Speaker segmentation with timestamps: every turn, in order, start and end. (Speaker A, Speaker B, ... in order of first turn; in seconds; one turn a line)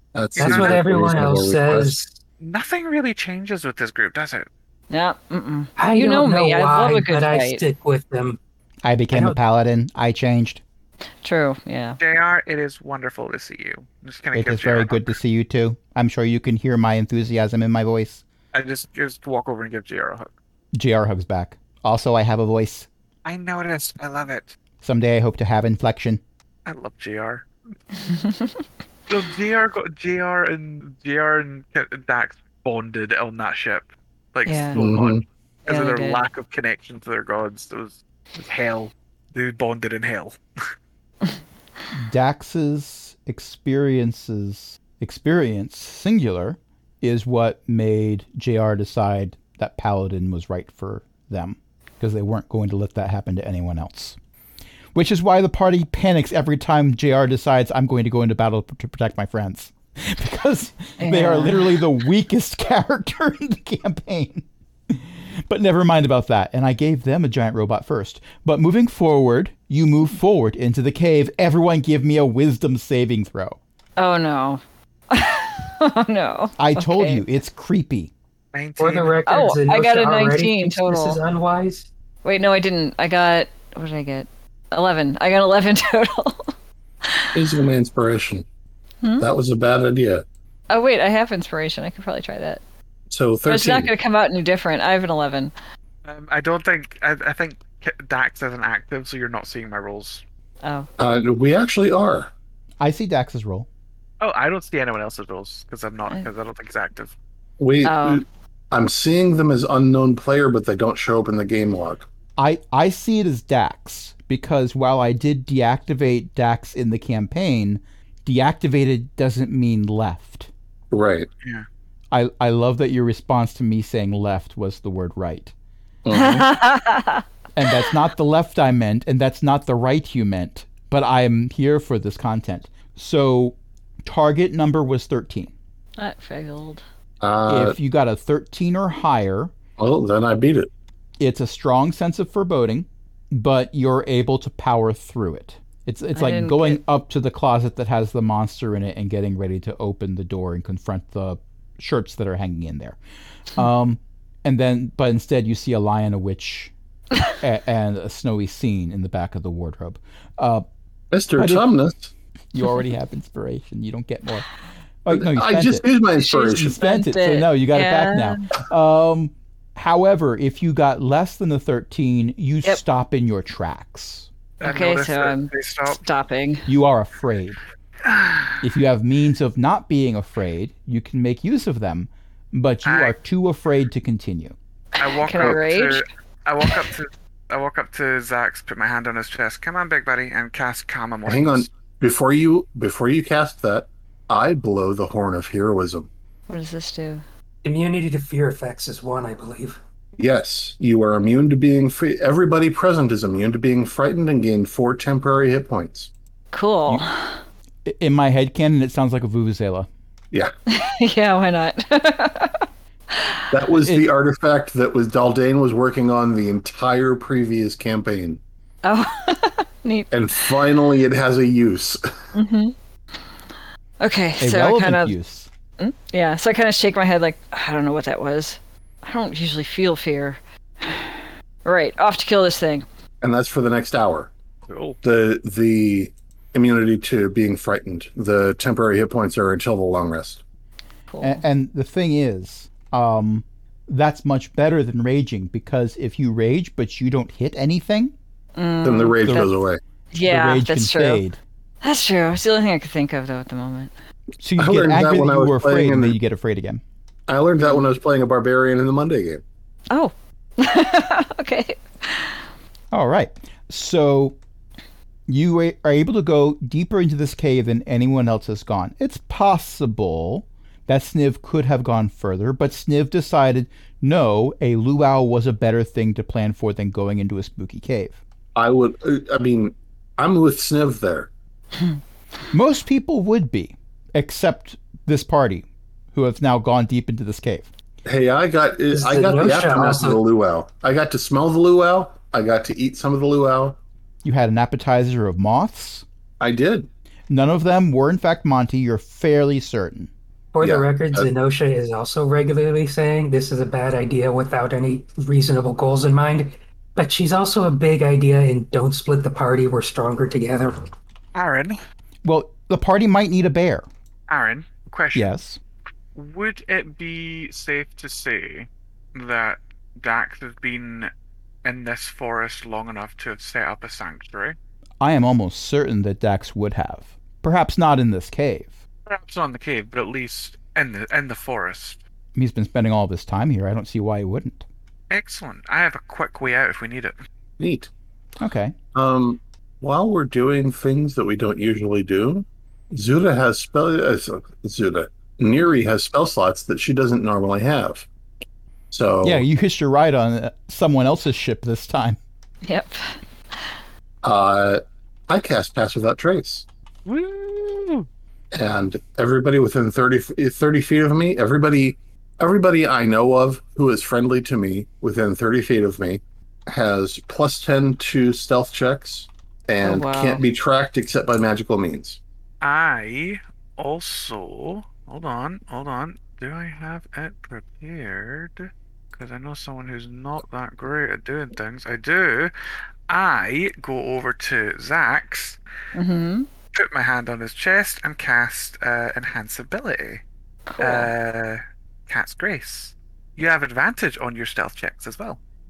Speaker A: 0.1-1.9
Speaker B: 0.3-0.9
Speaker C: 0.4-2.2
Speaker B: 2.4-4.5
Speaker D: 4.9-7.6
Speaker C: 5.8-8.4
Speaker E: 8.8-10.6
Speaker C: 9.1-9.4
Speaker D: 11.2-12.0
Speaker B: 12.0-15.2
Speaker E: 14.3-18.2
Speaker B: 18.5-20.3
Speaker E: 20.7-22.9
Speaker B: 23.2-24.6
Speaker E: 24.8-26.2
Speaker B: 26.6-27.4
Speaker D: 28.0-28.6
Speaker B: 29.1-40.4
Speaker D: 34.5-34.8
Speaker A: 34.8-35.2
Speaker D: 35.6-36.2
Speaker E: 41.9-54.2
Speaker E: 54.9-73.6
Speaker D: 61.0-61.8
Speaker D: 74.0-77.2
Speaker E: 76.6-78.1
Speaker B: 78.5-79.2
Speaker C: 78.8-81.9
Speaker D: 79.2-81.2
Speaker D: 82.2-86.5
Speaker D: 87.0-87.4
Speaker A: 87.3-88.4
Speaker D: 89.0-89.3
Speaker A: 89.2-90.2
Speaker D: 90.7-92.6
Speaker A: 93.1-93.9
Speaker D: 93.5-95.5
Speaker B: 96.0-100.2
Speaker D: 100.6-100.9
Speaker A: 101.0-102.3
Speaker E: 102.8-103.7
Speaker B: 104.2-107.1
Speaker A: 107.6-112.0
Speaker D: 107.8-108.2
Speaker E: 112.4-120.5
Speaker A: 120.9-121.3
Speaker E: 122.1-125.5
Speaker A: 126.0-126.5
Speaker D: 126.1-127.2
Speaker E: 127.5-135.5
Speaker D: 136.0-136.8
Speaker A: 137.2-137.8
Speaker E: 137.5-139.5
Speaker A: 139.8-140.7
Speaker E: 141.2-153.0
Speaker D: 146.1-146.8
Speaker E: 153.5-156.7
Speaker E: 157.4-160.6
Speaker A: 161.1-162.1
Speaker E: 161.3-161.7
Speaker E: 162.5-164.5
Speaker E: 165.0-165.8
Speaker A: 165.1-166.8
Speaker D: 166.2-168.5
Speaker E: 166.5-174.3
Speaker B: 174.6-176.0
Speaker D: 174.6-176.7
Speaker E: 176.7-177.6
Speaker B: 178.0-178.6
Speaker E: 178.6-184.6
Speaker B: 182.8-183.1
Speaker D: 185.0-186.0
Speaker B: 185.0-191.7
Speaker A: 191.3-196.1
Speaker D: 196.5-197.2
Speaker C: 197.6-199.8
Speaker A: 200.2-206.1
Speaker D: 206.5-207.4
Speaker E: 207.8-209.9
Speaker D: 210.7-213.5
Speaker A: 213.5-218.4
Speaker E: 213.8-214.1
Speaker D: 218.8-220.6
Speaker A: 220.1-222.0
Speaker D: 222.3-222.7
Speaker D: 224.0-225.1
Speaker E: 224.4-225.5
Speaker D: 225.8-232.8
Speaker A: 233.2-234.3
Speaker B: 234.7-235.0
Speaker A: 235.0-240.4
Speaker D: 241.1-241.4
Speaker E: 241.2-248.1
Speaker D: 248.6-249.5
Speaker A: 248.8-249.8
Speaker D: 250.1-251.2
Speaker E: 250.2-251.4
Speaker D: 251.8-253.9
Speaker E: 254.4-256.8
Speaker A: 254.6-256.2
Speaker A: 257.3-259.4
Speaker D: 257.6-257.9
Speaker D: 259.9-262.4
Speaker E: 262.9-264.4
Speaker E: 265.3-278.2
Speaker A: 278.5-281.3
Speaker E: 282.5-287.7
Speaker A: 288.1-293.8
Speaker C: 288.9-290.2
Speaker E: 294.2-296.0
Speaker A: 296.4-296.9
Speaker E: 297.3-300.1
Speaker C: 300.5-310.8
Speaker A: 300.6-301.3
Speaker B: 311.3-311.8
Speaker E: 312.2-313.9
Speaker B: 314.3-315.3
Speaker E: 315.1-315.6
Speaker B: 316.1-321.1
Speaker B: 321.6-324.6
Speaker E: 325.0-328.7
Speaker B: 329.1-332.0
Speaker E: 332.3-334.6
Speaker B: 335.1-337.1
Speaker A: 337.6-337.9
Speaker E: 338.4-338.7
Speaker A: 338.9-348.1
Speaker A: 348.9-349.4
Speaker E: 349.2-352.2
Speaker D: 352.6-353.7
Speaker A: 354.2-356.6
Speaker B: 357.1-358.1
Speaker A: 358.5-372.2
Speaker D: 369.8-370.4
Speaker B: 372.6-382.5
Speaker B: 383.1-385.6
Speaker D: 385.9-386.5
Speaker B: 386.7-390.2
Speaker D: 390.7-391.1
Speaker B: 390.8-395.4